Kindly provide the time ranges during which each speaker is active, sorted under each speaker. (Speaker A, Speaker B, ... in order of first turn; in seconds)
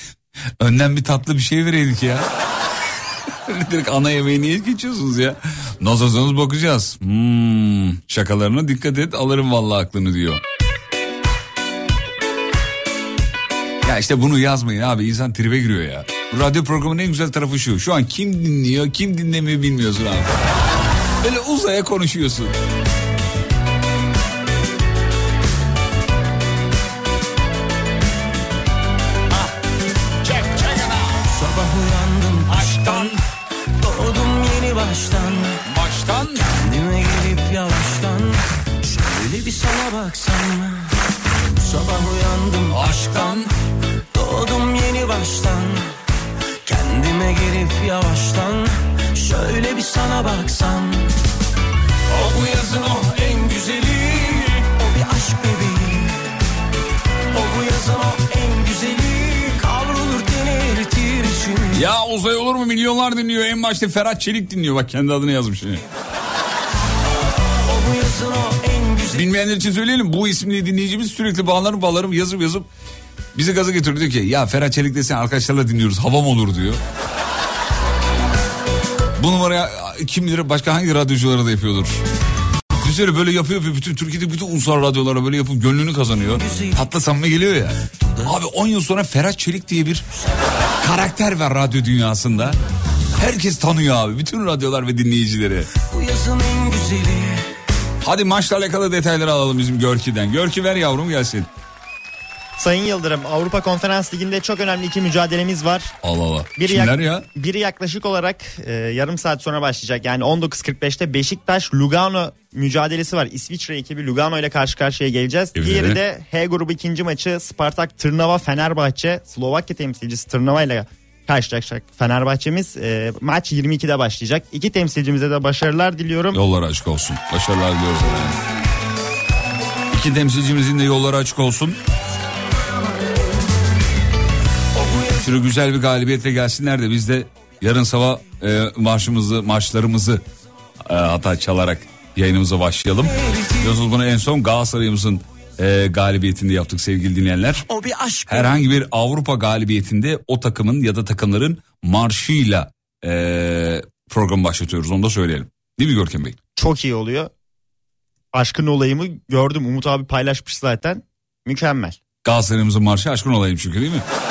Speaker A: 0.6-2.3, 3.5-10.4, 13.8-20.4, 21.2-22.6, 30.2-31.2, 32.5-33.2, 35.6-36.5, 42.7-43.5, 61.7-65.8, 69.1-72.7, 73.3-76.8, 79.2-82.0, 82.8-90.0, 90.8-92.6, 93.1-95.7, 98.0-101.5, 106.0-107.3, 115.5-116.0, 126.3-128.4, 129.9-131.8, 135.2-140.2, 140.8-147.7, 148.3-156.4, 162.2-164.1
Speaker B: 31.3-33.2, 33.8-35.6, 36.5-40.9, 41.5-43.5, 44.1-46.0, 46.6-51.1, 52.1-56.4, 57.3-61.8, 67.6-69.3, 86.3-86.8, 95.8-97.5, 134.8-135.2, 143.2-143.7, 147.7-148.5
Speaker C: 102.6-105.9, 106.6-126.4, 156.6-157.3, 158.3-162.0